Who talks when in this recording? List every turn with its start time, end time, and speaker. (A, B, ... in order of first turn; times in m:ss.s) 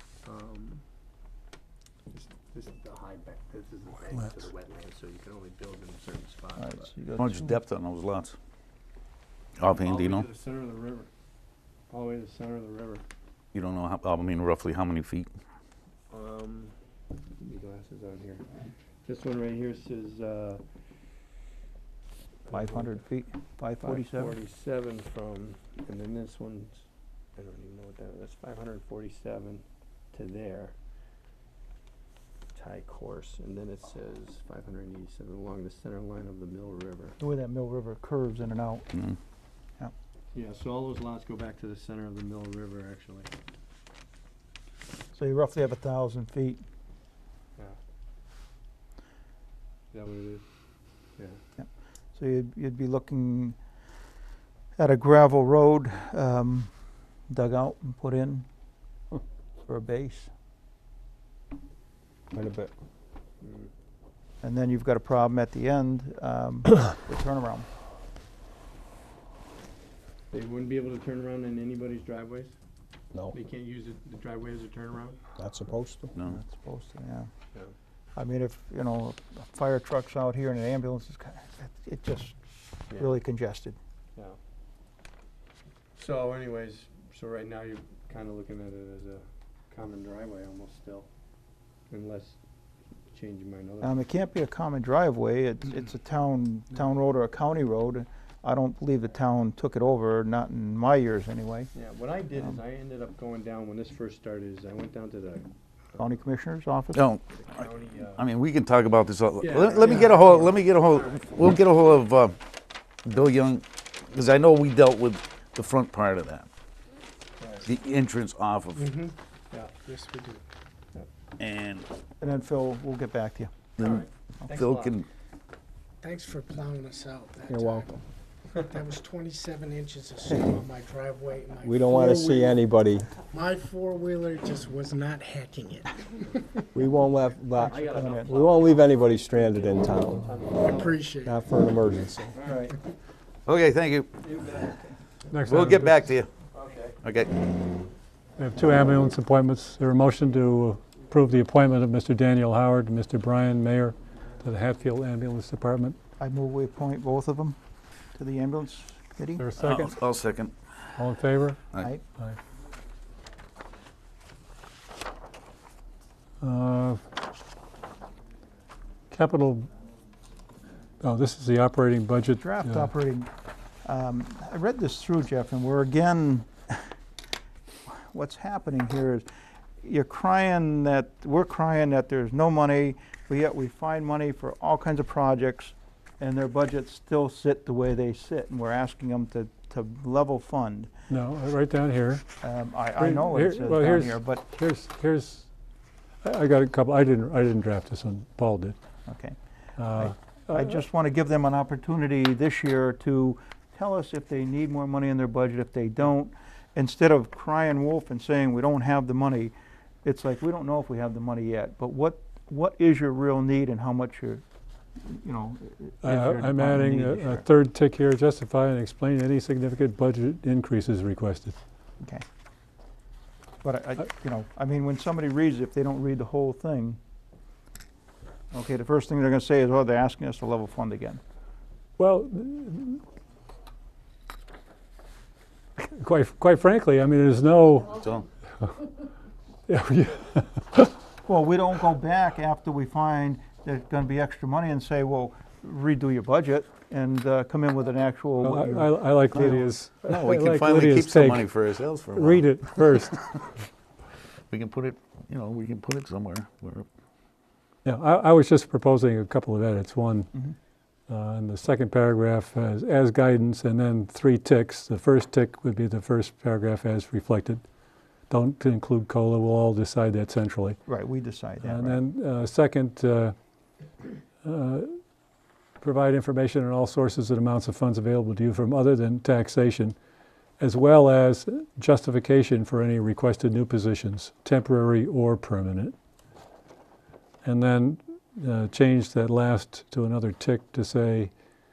0:00.2-0:00.8 A
0:02.1-0:06.9 A
0:06.6-0:07.6 B
0:07.2-0:08.4 C
0:09.6-0:10.3 C
0:09.7-0:11.1 A
0:11.9-0:13.0 A
0:13.5-0:15.3 C
0:16.1-0:16.8 A
0:17.4-0:18.4 A
0:19.1-0:20.6 A
0:22.5-0:22.9 A
0:22.5-0:24.4 B
0:23.8-0:26.8 A
0:27.4-0:30.8 A
0:32.6-0:37.2 A
0:37.2-0:38.9 B
0:40.3-0:43.3 A
0:45.1-0:46.6 B
0:49.9-0:50.4 A
0:51.6-0:53.6 B
0:54.8-0:56.7 B
0:57.3-0:58.5 B
0:59.7-1:00.3 B
1:02.3-1:02.7 D
1:03.4-1:03.7 A
1:04.4-1:07.7 B
1:10.3-1:12.5 A
1:13.3-1:15.2 A
1:15.4-1:16.1 D
1:16.2-1:17.3 B
1:18.2-1:22.4 B
1:22.9-1:23.8 B
1:26.0-1:31.1 A
1:31.9-1:32.4 A
1:33.1-1:33.9 A
1:33.8-1:41.7 B
1:41.8-1:46.0 A
1:46.0-1:47.0 B
1:47.0-1:47.6 C
1:47.3-1:48.2 A
1:48.2-1:52.4 C
1:49.4-1:51.3 A
1:53.0-1:56.5 C
1:57.4-1:57.7 A
1:57.7-1:58.9 C
1:58.8-1:59.1 E
1:59.8-2:00.4 E
2:01.4-2:01.9 C
2:02.2-2:03.5 B
2:03.8-2:05.1 C
2:03.8-2:05.0 A
2:06.0-2:08.0 E
2:07.5-2:08.0 D
2:08.6-2:12.5 E
2:11.6-2:13.1 D
2:11.9-2:12.5 B
2:13.2-2:16.6 E
2:16.7-2:20.4 D
2:17.5-2:21.2 A
2:17.6-2:18.4 B
2:20.6-2:21.4 E
2:21.2-2:22.3 D
2:22.4-2:22.7 A
2:23.5-2:24.1 C
2:24.2-2:25.0 A
2:25.3-2:26.0 F
2:25.5-2:26.3 C
2:26.5-2:27.0 A
2:27.0-2:27.3 C
2:28.4-2:36.0 F
2:36.2-2:37.6 B
2:38.2-2:39.5 B
2:39.4-2:40.0 F
2:39.6-2:40.9 C
2:41.0-2:41.6 F
2:41.8-2:42.0 B
2:46.4-2:47.0 F
2:49.1-2:49.7 F
2:51.0-2:52.9 F
2:52.4-2:53.3 B
2:53.8-2:56.9 B
2:57.9-2:59.2 B
2:59.8-3:10.9 B
3:11.1-3:12.2 F
3:12.4-3:14.4 B
3:13.0-3:15.5 F
3:16.2-3:18.8 F
3:19.1-3:19.4 B
3:19.8-3:20.8 F
3:19.9-3:34.4 B
3:35.0-3:37.5 B
3:36.0-3:41.6 F
3:43.6-3:47.0 B
3:48.5-3:51.2 B
3:52.0-3:53.0 F
3:55.8-3:58.0 F
3:58.0-3:58.2 C
3:59.7-4:00.9 F
4:01.2-4:09.8 B
4:08.4-4:11.5 F
4:10.1-4:12.7 C
4:12.1-4:13.5 F
4:14.5-4:16.9 C
4:17.8-4:20.3 F
4:21.1-4:27.6 F
4:28.3-4:30.8 F
4:30.9-4:32.0 B
4:31.6-4:33.4 F
4:34.4-4:35.0 F
4:35.8-4:40.0 F
4:40.6-4:46.0 F
4:47.4-4:51.3 F